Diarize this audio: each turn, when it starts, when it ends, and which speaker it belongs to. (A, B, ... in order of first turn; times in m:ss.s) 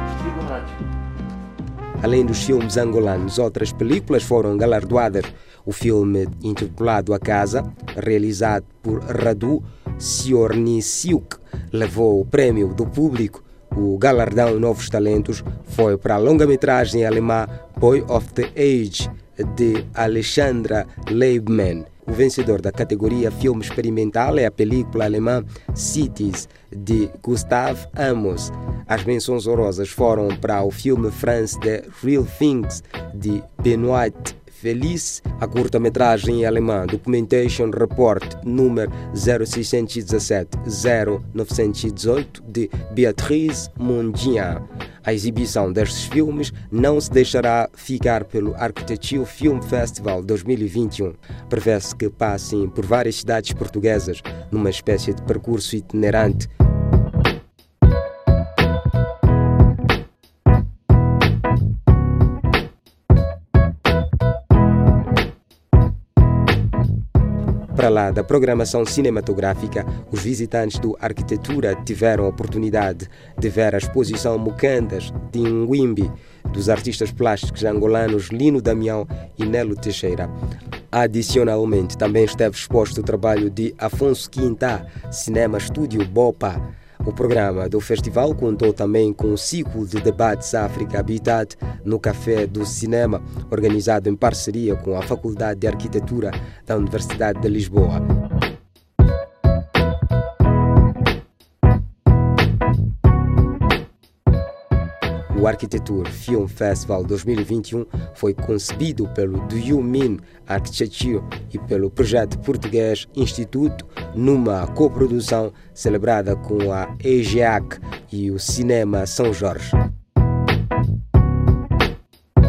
0:02.0-0:56.5 A
1:07.7-1:20.3 A
1:20.9-1:38.0 A
1:45.3-1:59.8 A